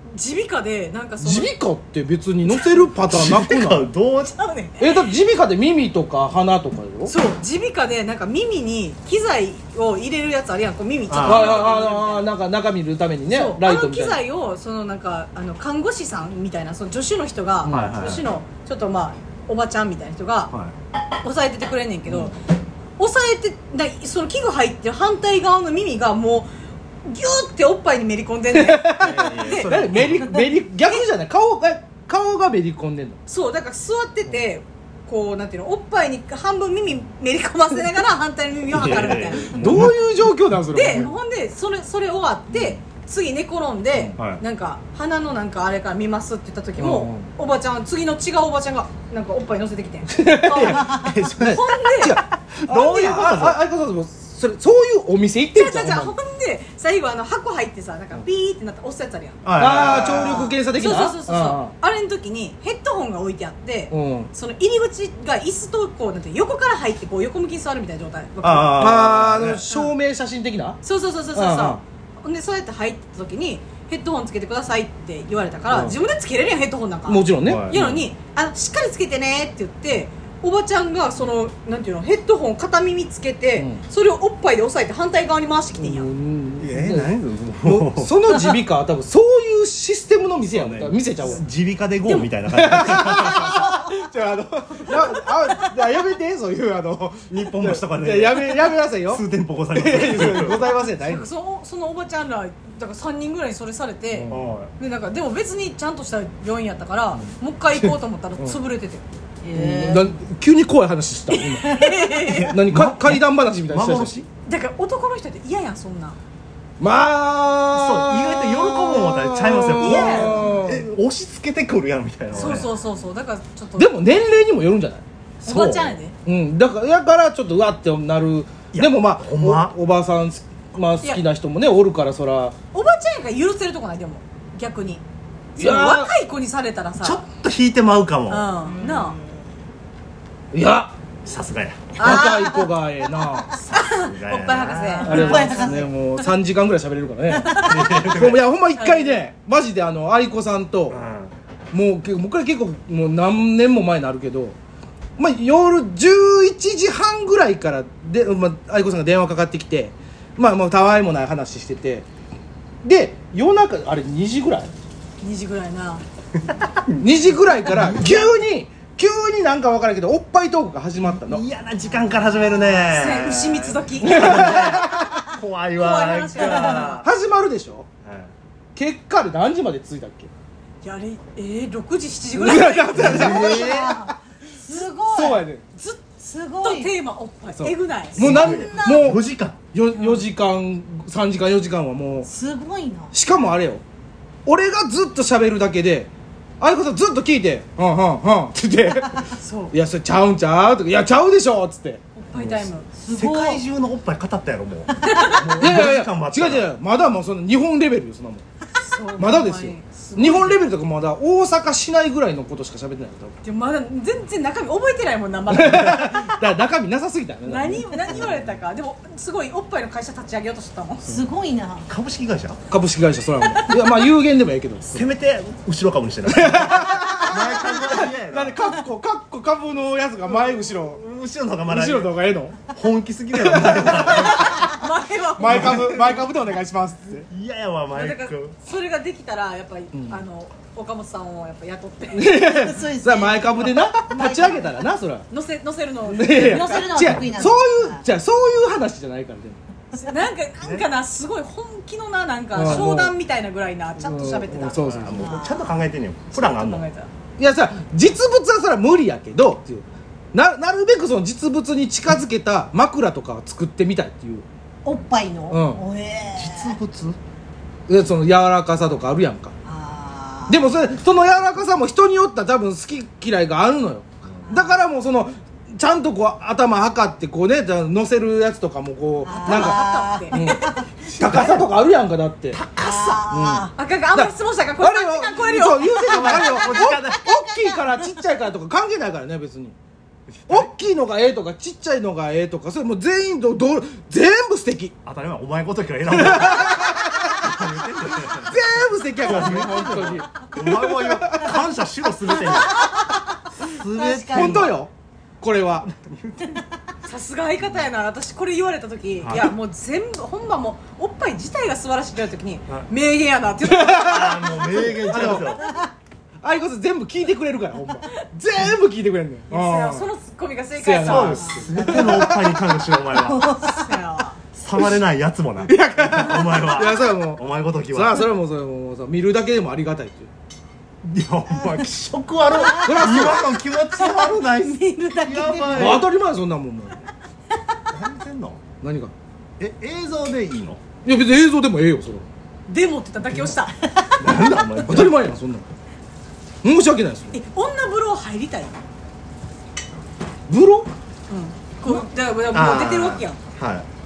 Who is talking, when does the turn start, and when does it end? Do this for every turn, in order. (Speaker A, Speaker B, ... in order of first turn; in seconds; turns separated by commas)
Speaker A: 0.1-1.5, Speaker B: 1.2-3.9, Speaker C: 3.0-4.3, Speaker A: 4.2-5.1, Speaker B: 4.8-7.1, Speaker A: 7.1-12.3, Speaker C: 11.1-11.7, Speaker B: 11.2-14.2, Speaker A: 13.3-20.5, Speaker B: 17.6-18.2, Speaker C: 17.7-18.2, Speaker A: 21.2-22.4, Speaker B: 22.1-22.3, Speaker A: 23.0-26.5, Speaker A: 27.1-30.0, Speaker B: 28.5-33.2, Speaker C: 29.0-30.4, Speaker A: 33.3-39.8, Speaker C: 38.7-39.9, Speaker B: 39.2-41.1, Speaker A: 40.7-52.2, Speaker B: 42.5-42.8, Speaker C: 44.2-44.4, Speaker B: 46.8-47.3, Speaker B: 50.1-56.2, Speaker C: 52.5-53.6, Speaker A: 55.5-69.0, Speaker C: 59.4-60.5, Speaker B: 59.6-61.7, Speaker B: 63.9-64.3, Speaker C: 68.4-69.6, Speaker B: 68.8-70.8, Speaker A: 69.7-69.9, Speaker A: 70.8-86.1, Speaker B: 71.3-71.8, Speaker B: 75.7-76.0, Speaker B: 77.1-77.9, Speaker C: 77.5-78.0, Speaker B: 85.8-91.4, Speaker C: 86.6-88.1, Speaker C: 90.5-93.8, Speaker B: 92.5-101.3, Speaker C: 97.3-100.7, Speaker A: 100.9-109.0, Speaker B: 104.1-104.5, Speaker C: 104.3-104.7, Speaker B: 107.2-108.6, Speaker D: 109.4-110.1, Speaker B: 109.5-111.8, Speaker A: 111.3-112.5, Speaker D: 111.7-112.5, Speaker B: 112.4-114.2, Speaker C: 112.7-114.3, Speaker A: 114.5-116.2, Speaker B: 116.8-120.8, Speaker C: 117.7-122.7, Speaker A: 119.8-120.5, Speaker A: 122.3-123.9, Speaker B: 123.8-125.0, Speaker A: 125.4-126.2, Speaker C: 125.5-126.0, Speaker B: 126.2-132.6, Speaker C: 128.7-129.7, Speaker A: 132.7-135.0, Speaker A: 135.6-137.2, Speaker B: 135.6-136.1, Speaker C: 137.0-138.5, Speaker A: 138.3-139.2, Speaker D: 138.7-139.5, Speaker B: 140.5-140.9, Speaker C: 141.2-142.0, Speaker B: 142.0-143.6, Speaker A: 142.0-142.6, Speaker A: 143.7-145.8, Speaker C: 143.9-145.5, Speaker B: 145.0-151.0, Speaker D: 145.1-145.9, Speaker D: 147.3-147.7, Speaker A: 147.5-147.8, Speaker C: 147.6-148.4, Speaker A: 148.8-149.2, Speaker C: 150.9-151.3, Speaker B: 151.7-154.6, Speaker B: 155.2-162.1, Speaker B: 162.8-164.7, Speaker A: 165.2-166.0, Speaker C: 166.5-167.1, Speaker B: 167.0-171.4, Speaker C: 171.1-177.1, Speaker D: 172.1-172.8, Speaker A: 172.7-174.6, Speaker B: 174.0-175.1, Speaker A: 175.8-177.0, Speaker B: 176.4-177.9, Speaker C: 178.1-178.3, Speaker B: 178.8-180.3, Speaker A: 180.8-183.2, Speaker B: 182.3-183.8, Speaker C: 182.9-184.0, Speaker D: 183.2-185.4, Speaker B: 184.8-185.6, Speaker A: 185.8-188.3, Speaker D: 186.2-186.9, Speaker B: 187.6-192.3, Speaker C: 188.2-189.6, Speaker D: 188.4-189.1, Speaker D: 192.2-193.2, Speaker B: 193.1-193.8, Speaker B: 194.5-202.0, Speaker A: 199.3-199.7, Speaker A: 202.2-202.9, Speaker C: 202.3-206.7, Speaker D: 203.0-203.6, Speaker A: 205.1-205.5, Speaker B: 205.6-208.4, Speaker A: 208.8-210.6, Speaker B: 209.2-213.3, Speaker A: 213.4-216.2, Speaker B: 215.5-218.4, Speaker A: 217.5-221.2, Speaker D: 221.0-221.9, Speaker C: 221.9-222.6, Speaker B: 222.7-225.1, Speaker C: 224.9-228.6, Speaker B: 226.2-231.0, Speaker C: 230.3-232.1, Speaker B: 231.7-232.6, Speaker C: 232.7-234.7, Speaker B: 233.3-234.6, Speaker A: 234.1-236.1, Speaker B: 235.4-237.3, Speaker C: 235.4-236.2, Speaker C: 237.3-238.5, Speaker A: 237.9-242.3, Speaker B: 239.9-240.2, Speaker B: 242.1-245.3, Speaker D: 242.3-244.9, Speaker A: 245.3-247.1, Speaker B: 246.1-249.6, Speaker D: 246.3-248.1, Speaker A: 249.9-254.9, Speaker C: 250.6-250.9, Speaker B: 252.6-253.1, Speaker B: 254.0-255.3, Speaker C: 254.8-256.9, Speaker D: 255.2-255.7, Speaker A: 256.3-257.1, Speaker B: 257.4-264.4, Speaker D: 264.9-266.8, Speaker B: 265.5-265.8, Speaker C: 266.4-267.2, Speaker B: 267.9-269.5, Speaker D: 269.6-270.7, Speaker B: 270.5-282.6, Speaker D: 274.5-274.8, Speaker D: 279.2-280.8, Speaker A: 279.4-280.8, Speaker C: 281.1-281.7, Speaker C: 282.5-283.3, Speaker D: 282.8-283.7, Speaker B: 283.3-289.8, Speaker A: 283.8-286.0, Speaker D: 285.9-288.2, Speaker C: 286.1-287.2, Speaker C: 290.3-290.7, Speaker B: 290.5-294.9, Speaker C: 295.0-302.8, Speaker B: 296.1-297.3, Speaker B: 298.4-301.6, Speaker D: 302.4-303.1, Speaker C: 303.6-304.7, Speaker D: 303.8-304.8, Speaker B: 304.2-305.9, Speaker C: 305.9-306.6, Speaker A: 307.0-315.5, Speaker C: 309.2-309.5, Speaker B: 313.6-315.6, Speaker C: 314.0-315.6, Speaker D: 315.6-315.9, Speaker B: 316.4-320.1, Speaker A: 319.5-321.7, Speaker B: 320.8-322.4, Speaker C: 321.1-323.4, Speaker D: 323.1-323.9, Speaker A: 323.6-324.4, Speaker C: 324.6-328.3, Speaker B: 325.6-330.3, Speaker C: 331.0-336.1, Speaker D: 332.5-336.1, Speaker B: 332.8-333.5, Speaker B: 335.7-337.0, Speaker C: 337.9-338.6, Speaker B: 338.8-339.1, Speaker C: 339.6-340.8, Speaker B: 341.1-342.2, Speaker A: 342.7-343.9, Speaker C: 344.2-345.2, Speaker B: 344.8-345.7, Speaker B: 346.6-347.4, Speaker A: 347.3-348.8, Speaker B: 350.5-350.9, Speaker A: 351.3-353.4, Speaker C: 351.9-353.9